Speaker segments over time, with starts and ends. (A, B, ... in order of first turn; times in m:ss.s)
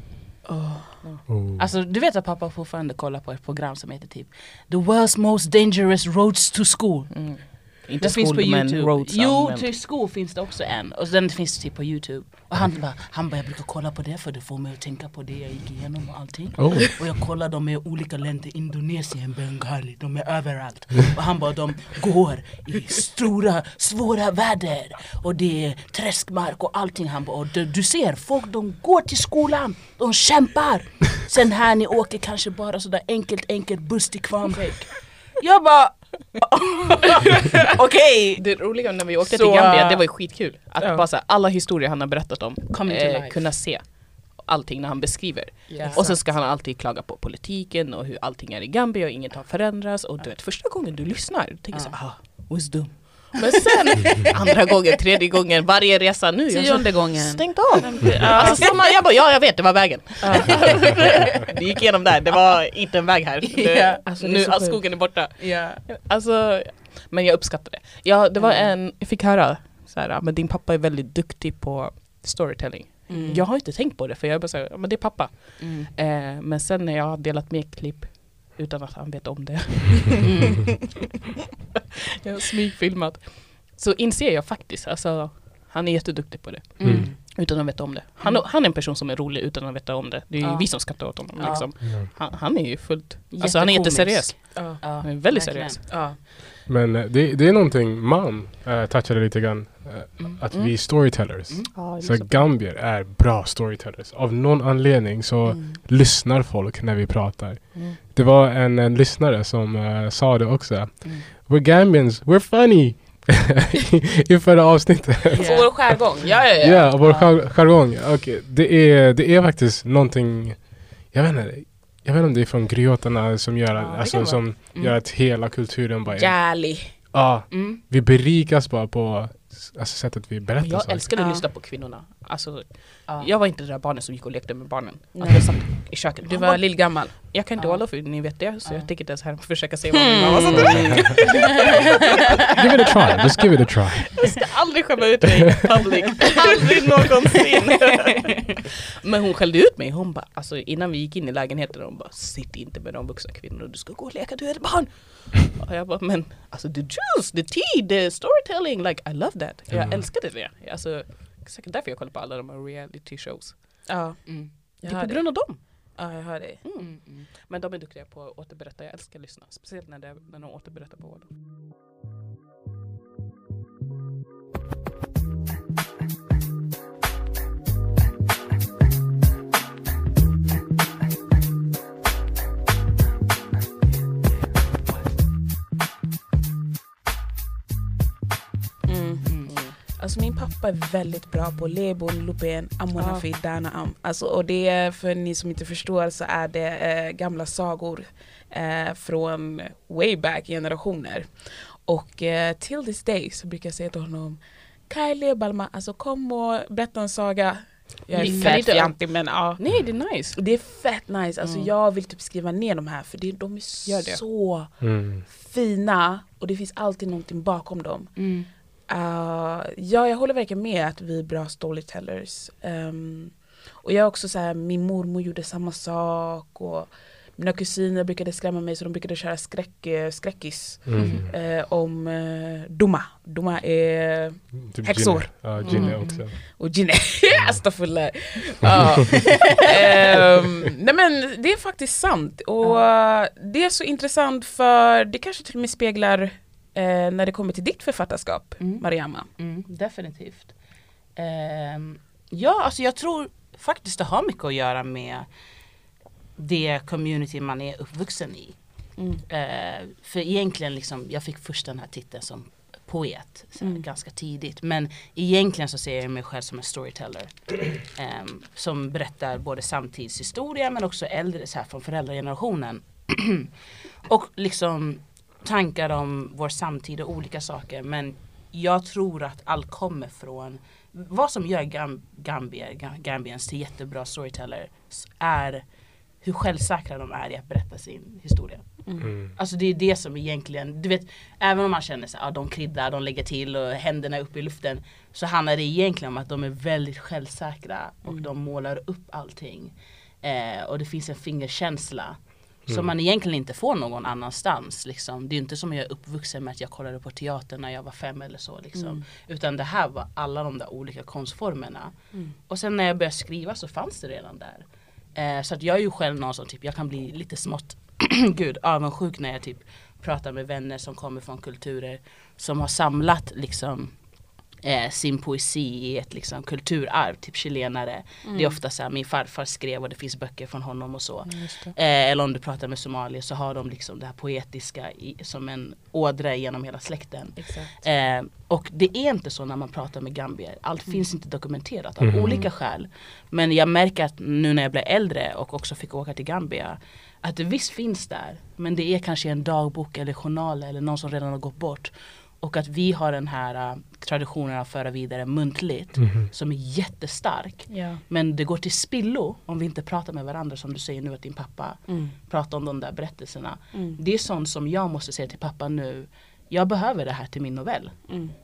0:00.4-0:01.0 A
0:01.3-0:01.6 B
0:01.6-0:38.7 C
0:07.1-0:09.7 D
0:16.6-0:16.9 B
0:38.4-1:20.5 D
0:39.2-0:40.0 C
0:40.8-0:41.0 A
0:42.7-0:43.4 C
0:45.7-0:46.1 A
0:45.7-0:46.2 C
0:51.7-0:52.0 C
0:56.5-0:58.8 A
1:00.2-1:00.8 A
1:00.3-1:01.4 C
1:03.5-1:04.0 C
1:04.0-1:04.8 A
1:05.4-1:05.8 C
1:08.4-1:08.7 C
1:13.1-1:13.5 A
1:15.6-1:15.9 C
1:20.2-1:20.6 C
1:22.2-1:35.9 D
1:26.8-1:27.2 C
1:26.8-1:27.1 B
1:31.3-1:31.6 A
1:31.4-1:31.7 C
1:31.8-1:32.1 B
1:33.3-1:36.0 C
1:34.5-1:35.3 A
1:35.9-1:36.2 A
1:36.6-2:06.6 B
1:40.5-1:40.8 D
1:41.7-1:42.6 D
1:45.5-1:45.8 A
1:55.3-1:55.7 C
1:55.4-1:57.0 A
1:57.0-1:57.3 C
2:03.8-2:04.4 D
2:06.1-2:06.9 A
2:07.1-2:11.1 B
2:07.5-2:07.8 C
2:10.6-2:21.7 D
2:11.2-2:11.5 A
2:15.1-2:17.2 A
2:17.6-2:18.9 C
2:19.9-2:21.4 A
2:20.5-2:21.6 B
2:22.5-2:24.4 B
2:24.1-2:43.9 D
2:39.7-2:40.1 B
2:43.9-2:46.6 A
2:44.2-2:44.5 C
2:44.8-2:45.6 D
2:46.6-2:51.3 D
2:46.8-2:47.3 C
3:08.9-3:38.2 A
3:09.3-3:09.6 C
3:13.0-3:13.2 D
3:28.2-3:30.4 D
3:28.2-3:28.7 C
3:33.9-3:34.2 D
3:34.8-3:35.2 B
3:38.2-3:38.5 C
3:38.9-4:09.3 A
3:50.9-3:51.3 B
3:54.6-3:56.4 B
3:55.7-3:56.2 C
4:08.6-4:08.8 C
4:09.4-4:10.5 C
4:11.2-4:15.3 C
4:16.4-4:18.6 C
4:19.0-4:19.2 A
4:19.2-4:33.5 C
4:34.0-4:45.6 C
4:46.2-4:48.7 C
4:48.8-4:49.1 A
4:49.0-4:49.3 B
4:49.3-5:11.9 C
5:08.8-5:09.0 A
5:12.5-5:23.9 C
5:24.6-6:08.1 C
5:28.2-5:28.6 A
5:31.3-5:31.7 D
5:37.4-5:37.7 A
5:42.0-5:42.3 B
5:56.0-5:56.2 B
5:57.7-5:58.0 A
6:01.9-6:02.2 A
6:03.7-6:04.0 A
6:08.1-6:08.3 A